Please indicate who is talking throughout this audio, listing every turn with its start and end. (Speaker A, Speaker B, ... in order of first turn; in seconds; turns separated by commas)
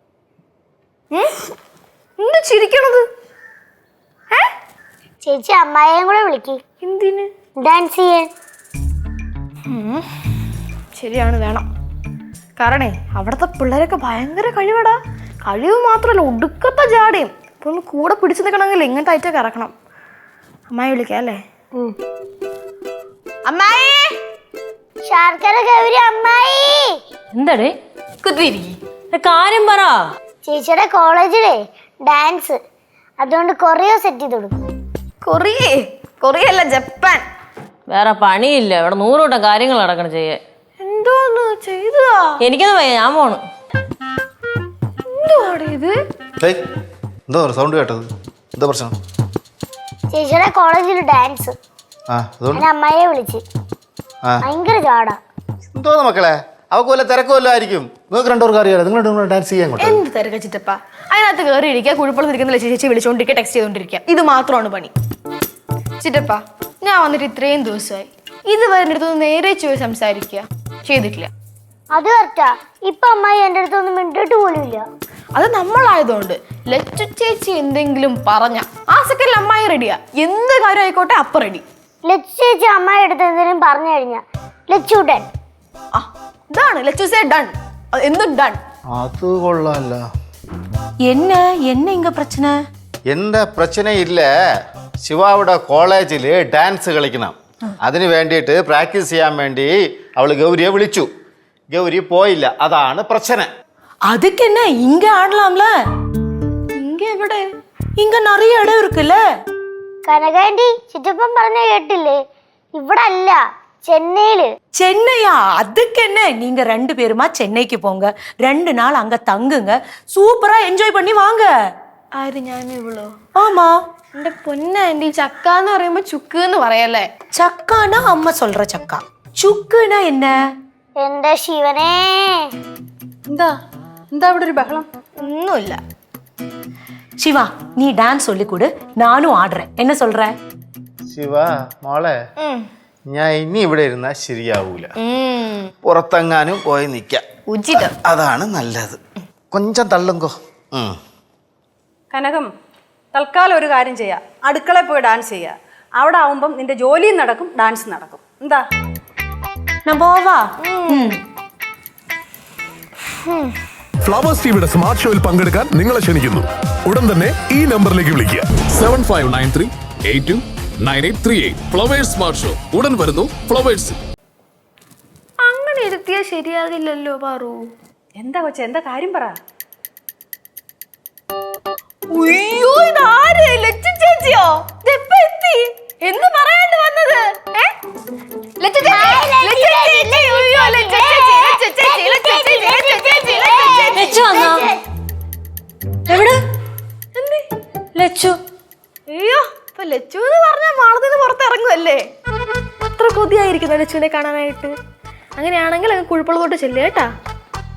Speaker A: 1.1-1.5, Speaker A: 2.2-3.1, Speaker B: 5.2-6.6, Speaker A: 6.8-7.3, Speaker B: 7.6-8.3, Speaker A: 9.7-10.3, Speaker A: 10.9-11.7, Speaker A: 12.6-19.7, Speaker A: 20.7-21.4, Speaker A: 23.4-24.2, Speaker B: 25.1-27.0, Speaker C: 27.3-27.7, Speaker A: 28.2-28.8, Speaker C: 29.1-30.0, Speaker B: 30.4-32.6, Speaker B: 33.2-34.5, Speaker A: 35.2-37.2, Speaker C: 37.9-40.4, Speaker A: 40.8-42.4, Speaker C: 42.4-43.4, Speaker A: 45.0-46.0, Speaker D: 47.3-48.9, Speaker B: 50.1-51.5, Speaker D: 52.1-52.6, Speaker B: 52.5-53.4, Speaker B: 54.4-55.2, Speaker D: 55.7-60.0, Speaker A: 59.8-64.9, Speaker A: 66.0-71.3, Speaker B: 71.9-74.8, Speaker A: 75.3-81.6, Speaker B: 82.1-85.3, Speaker A: 85.9-88.6, Speaker D: 88.9-90.0, Speaker E: 91.0-92.5, Speaker D: 93.1-94.3, Speaker D: 95.0-101.1, Speaker D: 101.7-103.5, Speaker E: 104.1-105.7, Speaker A: 106.7-107.5, Speaker E: 108.0-109.2, Speaker B: 110.0-112.2, Speaker B: 112.8-114.5, Speaker E: 114.8-121.5, Speaker A: 122.1-123.2, Speaker E: 123.4-123.7, Speaker A: 124.1-127.1, Speaker E: 127.3-130.3, Speaker B: 131.0-132.5, Speaker F: 134.1-134.9, Speaker A: 135.2-135.8, Speaker E: 137.2-140.3, Speaker D: 141.1-142.2, Speaker A: 142.4-142.7, Speaker D: 143.1-144.9, Speaker A: 145.0-145.7, Speaker D: 145.8-147.2, Speaker A: 147.5-147.9, Speaker D: 147.8-149.0, Speaker D: 149.5-151.0, Speaker F: 152.1-152.5, Speaker F: 153.1-158.6, Speaker E: 159.8-161.2, Speaker A: 160.6-161.1, Speaker A: 163.1-163.5, Speaker G: 164.0-169.0, Speaker H: 168.8-174.0, Speaker A: 175.4-177.6, Speaker F: 178.2-179.3, Speaker A: 182.1-187.7, Speaker A: 188.6-194.3, Speaker B: 188.8-194.8, Speaker E: 194.0-194.7, Speaker E: 196.1-196.4, Speaker A: 197.1-197.5, Speaker E: 197.9-198.4, Speaker A: 199.1-202.1, Speaker A: 202.9-204.8, Speaker A: 205.3-207.1